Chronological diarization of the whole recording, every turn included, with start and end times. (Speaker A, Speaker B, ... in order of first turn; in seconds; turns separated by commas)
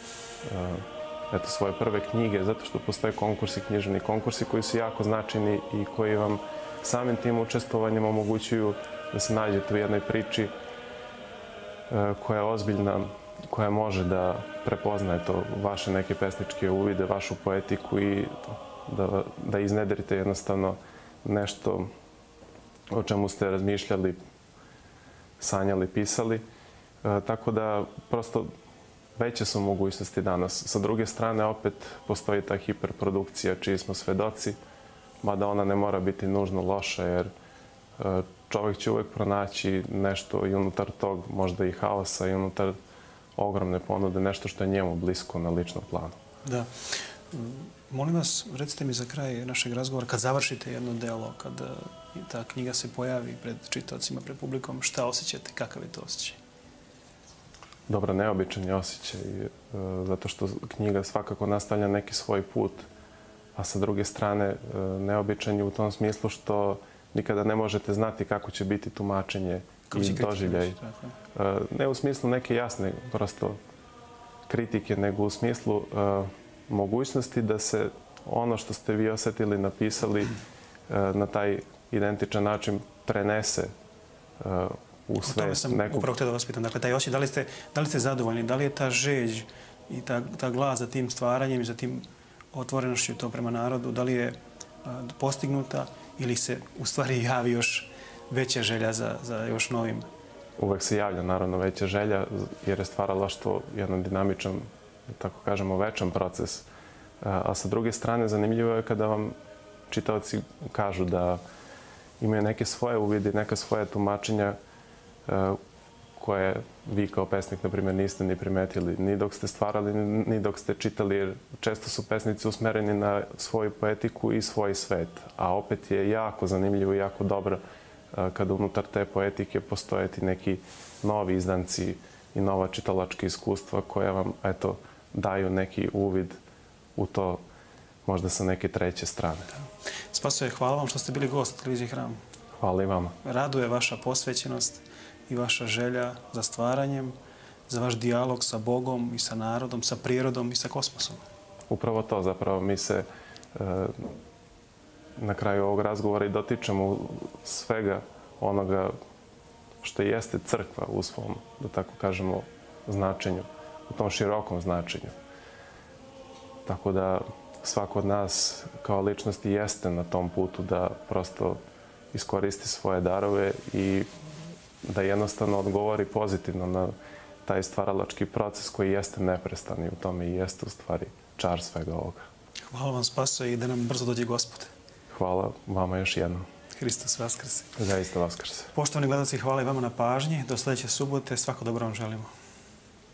Speaker A: 0.4-10.5, Speaker A: 11.9-21.9, Speaker A: 22.9-24.2, Speaker A: 25.4-26.4, Speaker A: 27.0-28.5, Speaker A: 29.1-34.6, Speaker A: 35.2-37.3, Speaker A: 38.0-42.7, Speaker A: 43.4-46.1, Speaker B: 46.4-56.4, Speaker A: 57.9-62.9, Speaker A: 63.5-70.8, Speaker B: 69.9-71.2, Speaker A: 71.3-73.6, Speaker A: 74.5-80.3, Speaker A: 80.9-83.7, Speaker A: 84.4-86.1, Speaker B: 85.2-100.1, Speaker A: 100.6-106.7, Speaker A: 107.2-109.3, Speaker A: 109.9-111.4, Speaker A: 112.2-114.6, Speaker A: 115.2-115.6, Speaker A: 116.2-127.6, Speaker A: 128.1-136.4, Speaker A: 136.9-137.4, Speaker A: 138.1-139.5, Speaker B: 140.1-142.2, Speaker A: 142.6-143.2, Speaker B: 143.2-147.1, Speaker B: 147.7-151.2, Speaker A: 151.7-154.1, Speaker A: 155.2-158.9, Speaker A: 159.8-165.1, Speaker A: 166.7-171.6, Speaker A: 172.1-174.1, Speaker A: 174.8-176.9, Speaker A: 177.4-182.2, Speaker B: 182.7-184.7, Speaker A: 185.1-186.4, Speaker B: 186.8-187.8, Speaker A: 187.8-188.7, Speaker B: 188.7-192.3